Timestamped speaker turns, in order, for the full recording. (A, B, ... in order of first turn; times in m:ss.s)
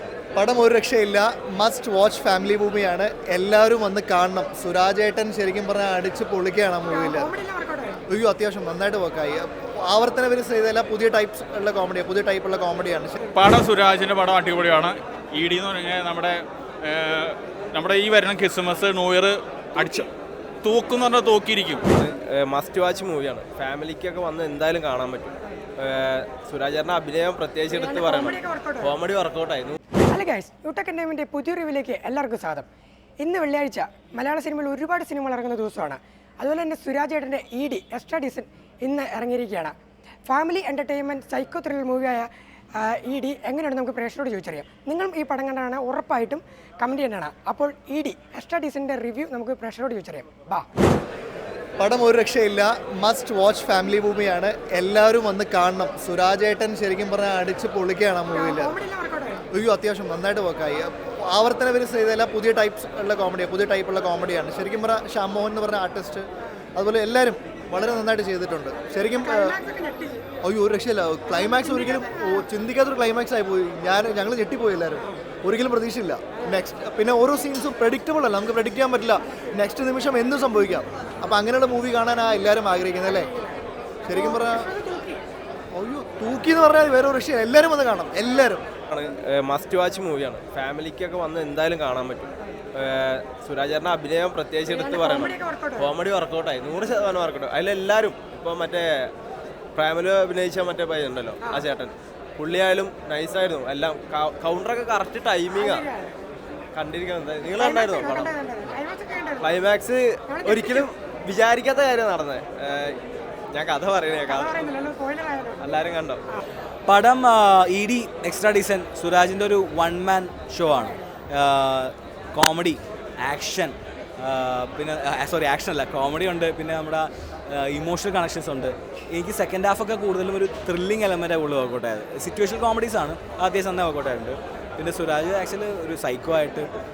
0:00.3-0:07.3 A
0:06.8-0:08.0 B
0:08.1-0:13.2 A
0:13.3-0:20.1 C
0:20.6-0:21.8 C
0:21.9-0:29.8 D
0:27.6-0:29.0 B
0:30.1-0:32.7 B
0:33.2-0:39.7 B
0:40.2-0:50.6 B
0:51.8-0:58.8 A
0:58.3-0:59.4 B
0:59.5-1:09.6 A
1:09.2-1:10.2 B
1:10.4-1:23.3 A
1:11.3-1:12.4 B
1:24.0-1:24.7 A
1:24.1-1:25.2 B
1:25.7-1:28.6 A
1:28.9-1:39.1 D
1:34.6-1:35.9 B
1:39.7-1:45.9 D
1:41.4-1:41.7 B
1:45.5-1:46.2 B
1:46.7-1:48.4 D
1:47.5-1:49.5 B
1:49.4-1:53.0 D
1:50.3-1:50.9 B
1:53.5-1:54.8 D
1:54.2-1:55.8 B
1:55.6-1:56.2 D
1:56.9-2:16.7 E